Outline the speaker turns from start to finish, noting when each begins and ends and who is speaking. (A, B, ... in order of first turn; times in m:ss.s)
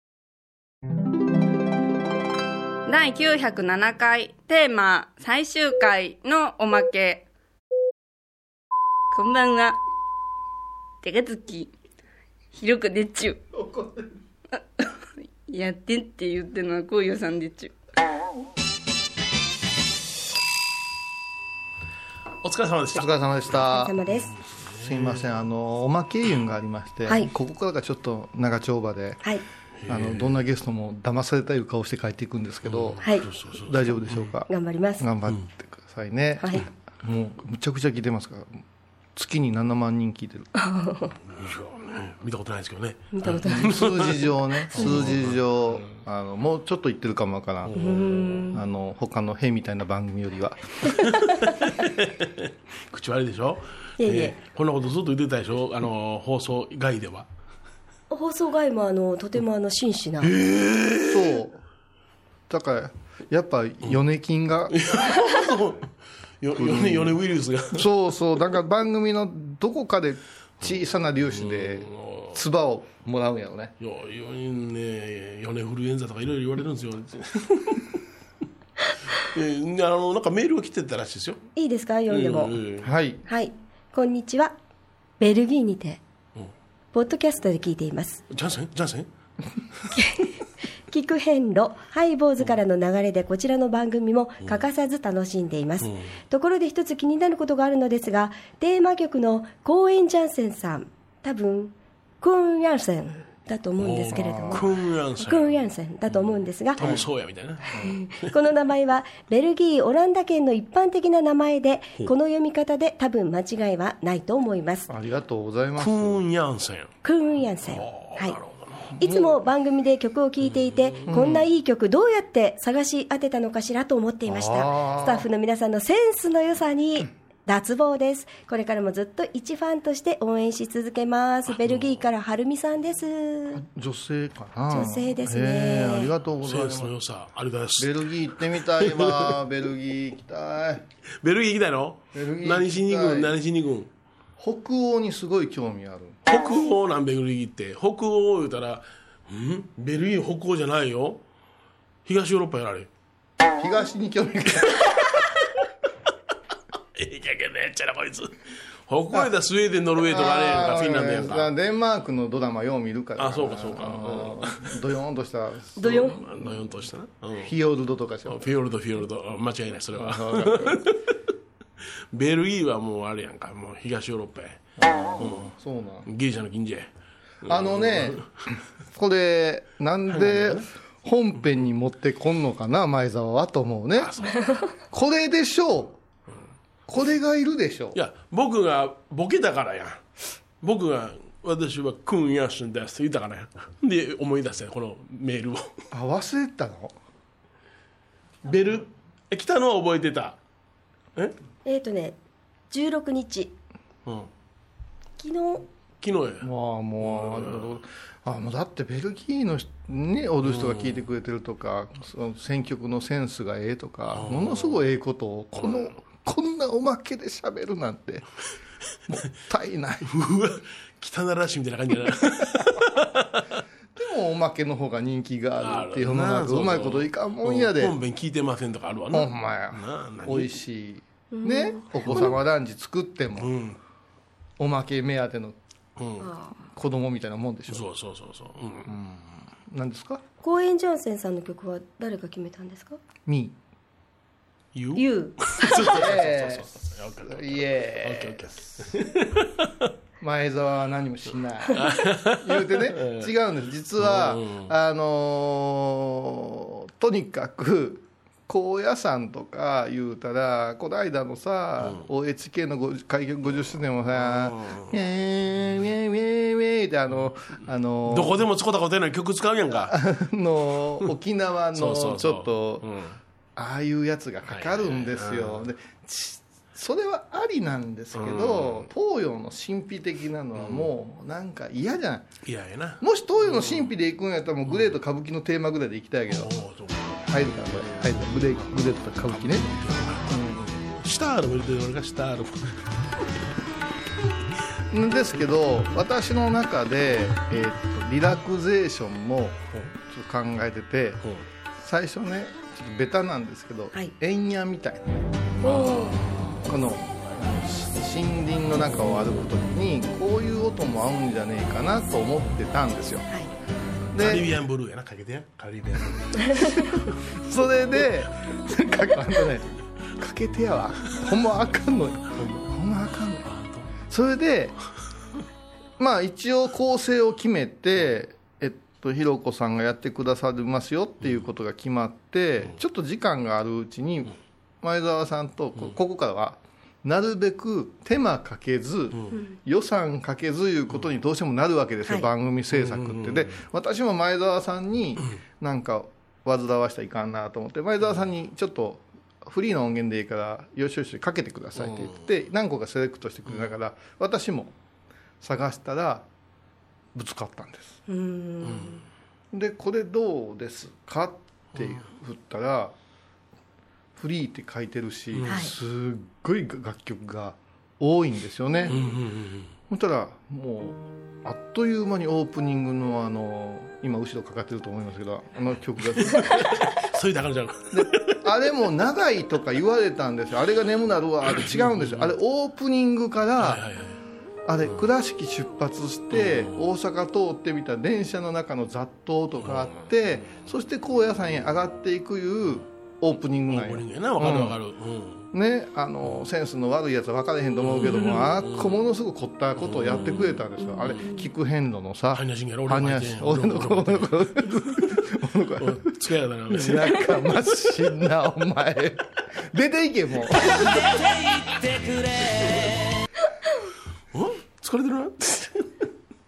0:02.9-0:07.3 A
0:09.1-0:09.8 A
0:11.0-0:11.7 A
0:12.5-0:13.4 A
0:13.6-0:14.0 B
0:14.6-0:17.7 A
0:22.4-0:23.5 C
0:22.9-0:23.9 B
0:23.6-0:24.3 D
0:24.3-0:25.3 C
0:24.8-0:29.2 B
0:29.8-0:30.4 C
0:29.9-0:33.0 B
0:32.6-0:34.3 C
0:33.0-0:33.3 D
0:33.5-0:38.6 B
0:34.5-0:35.1 D
0:36.4-0:36.7 D
0:39.2-0:40.5 B
0:40.6-0:41.2 D
0:41.3-0:46.0 C
0:43.1-0:44.1 D
0:43.3-0:47.8 B
0:44.7-0:45.1 D
0:47.6-0:48.5 C
0:47.8-0:48.6 D
0:48.5-0:50.9 B
0:51.0-0:57.3 C
0:54.0-0:54.4 D
0:58.1-1:00.3 D
1:00.2-1:01.4 C
1:01.1-1:01.6 B
1:02.5-1:04.8 B
1:04.7-1:07.9 C
1:06.6-1:07.2 B
1:07.7-1:13.7 B
1:11.3-1:12.4 C
1:13.8-1:18.0 C
1:19.1-1:21.4 C
1:21.6-1:22.6 D
1:22.1-1:22.9 C
1:22.8-1:23.2 B
1:23.3-1:24.6 D
1:25.2-1:26.0 D
1:26.9-1:28.2 D
1:28.3-1:29.1 C
1:30.0-1:30.3 D
1:30.9-1:44.7 D
1:35.8-1:36.1 C
1:43.8-1:45.6 C
1:44.1-1:44.7 B
1:45.2-1:46.8 D
1:46.2-1:48.3 C
1:46.8-1:47.1 B
1:47.8-1:54.9 D
1:54.9-1:56.2 B
1:55.8-1:56.9 C
1:57.0-1:58.4 D
1:57.6-1:58.9 C
1:59.0-1:59.4 B
1:59.0-2:13.6 D
2:00.5-2:01.1 C
2:01.1-2:01.5 B
2:04.3-2:05.3 B
2:13.5-2:16.9 B
2:14.7-2:16.1 D
2:16.4-2:18.0 C
2:17.8-2:20.8 B
2:18.7-2:19.4 C
2:21.2-2:23.9 C
2:22.1-2:23.4 B
2:24.4-2:26.2 B
2:26.3-2:31.2 C
2:32.0-2:32.9 C
2:33.6-2:35.1 B
2:37.0-2:41.5 C
2:40.0-2:46.7 B
2:43.2-2:44.8 C
2:45.8-2:46.2 D
2:45.8-2:47.5 C
2:47.4-2:48.5 B
2:48.3-2:51.0 C
2:49.9-2:50.8 B
2:52.1-2:54.6 C
2:54.8-2:56.1 B
2:55.2-2:55.5 C
2:56.1-2:56.9 C
2:57.4-2:58.3 C
2:57.4-2:58.2 B
2:58.9-3:04.1 B
3:00.1-3:00.7 C
3:04.0-3:04.6 C
3:04.9-3:06.0 B
3:06.9-3:08.0 B
3:07.9-3:10.0 C
3:10.6-3:15.7 C
3:15.9-3:17.0 B
3:18.4-3:20.4 C
3:21.6-3:22.2 D
3:22.7-3:23.5 D
3:25.2-3:25.6 D
3:26.0-3:27.7 C
3:26.4-3:38.3 B
3:30.4-3:31.0 C
3:34.1-3:34.8 C
3:35.6-3:36.0 C
3:39.1-3:40.1 B
3:40.1-3:43.6 C
3:44.0-3:48.0 B
3:45.6-3:50.6 C
3:49.1-3:53.5 B
3:51.3-3:52.3 D
3:52.0-3:52.4 C
3:53.4-3:53.8 C
3:54.6-3:55.6 B
3:56.0-3:56.3 C
3:56.2-3:56.6 D
3:56.7-3:57.9 B
3:57.7-3:58.9 C
3:58.9-4:00.2 B
4:00.4-4:03.0 D
4:03.3-4:03.6 B
4:04.8-4:09.9 C
4:05.0-4:05.9 D
4:05.8-4:06.7 B
4:07.2-4:08.9 B
4:10.2-4:28.4 B
4:11.7-4:13.3 C
4:14.0-4:14.7 C
4:21.8-4:22.1 C
4:24.1-4:25.0 C
4:28.1-4:30.0 C
4:29.8-4:32.9 B
4:31.7-4:33.2 C
4:33.6-4:42.3 B
4:34.5-4:35.7 C
4:38.2-4:38.9 C
4:40.6-4:40.9 C
4:42.4-4:43.9 C
4:43.0-4:46.5 B
4:44.7-4:45.0 C
4:46.3-4:52.9 C
4:47.3-4:50.8 B
4:54.9-5:01.2 B
5:01.8-5:13.3 B
5:05.6-5:06.2 D
5:05.7-5:06.6 C
5:14.1-5:14.5 B
5:14.2-5:16.8 C
5:16.6-5:23.5 B
5:23.5-5:23.9 C
5:24.1-5:24.8 B
5:26.0-5:54.7 B
5:42.7-5:43.6 C
5:51.8-5:52.2 C
5:55.4-5:56.3 B
5:57.2-5:58.0 B
5:58.1-5:59.0 D
5:58.6-5:59.0 C
5:59.5-6:03.0 B
6:01.8-6:02.0 C
6:04.2-6:09.0 B
6:05.3-6:05.6 C
6:05.5-6:05.7 D
6:08.9-6:09.7 C
6:09.9-6:16.9 B
6:16.1-6:18.4 C
6:17.9-6:23.8 B
6:21.5-6:22.3 C
6:23.6-6:24.2 C
6:24.7-6:34.8 B
6:26.3-6:26.9 C
6:29.6-6:30.6 C
6:33.7-6:35.5 C
6:35.5-6:46.1 B
6:37.8-6:39.0 C
6:39.8-6:41.2 C
6:42.3-6:44.5 C
6:45.8-6:47.4 C
6:46.7-6:51.0 B
6:52.6-6:52.8 C
6:54.3-6:55.9 C